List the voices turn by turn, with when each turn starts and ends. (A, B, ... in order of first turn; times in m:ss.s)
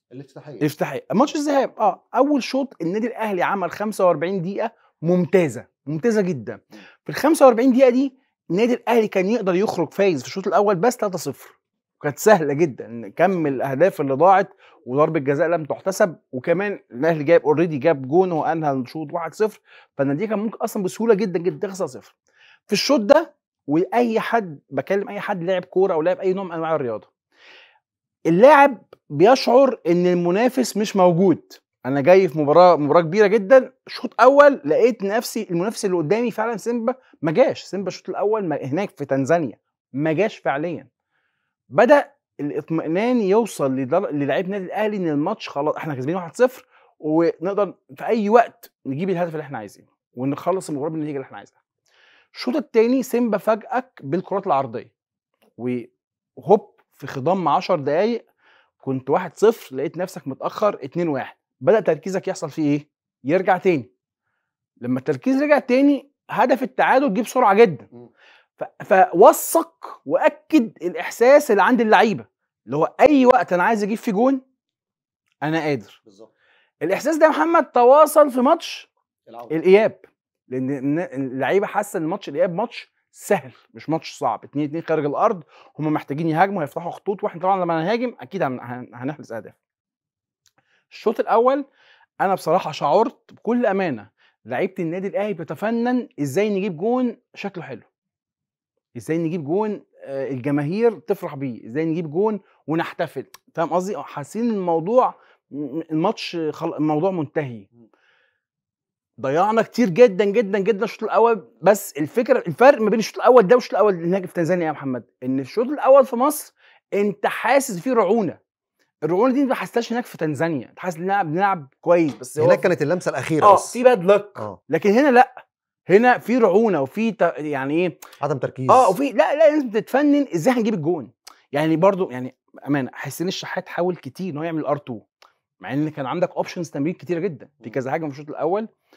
0:00.1-0:00.7 A
0:00.6-0:22.1 B
0:22.7-0:27.1 B
0:28.3-0:40.9 B
0:41.7-0:51.6 B
0:52.3-0:54.9 B
0:55.6-0:58.2 B
0:58.8-1:03.9 B
1:04.8-1:07.9 B
1:08.6-1:14.4 B
1:15.4-1:16.0 B
1:16.8-1:18.9 B
1:19.3-1:19.5 A
1:19.5-1:29.6 B
1:30.9-1:31.6 B
1:32.2-1:37.8 B
1:39.0-1:47.7 B
1:49.2-1:58.4 B
1:59.0-2:02.7 B
2:02.4-2:03.8 A
2:03.4-2:05.3 B
2:05.9-2:08.0 B
2:08.2-2:08.9 A
2:08.7-2:15.0 B
2:15.6-2:18.7 B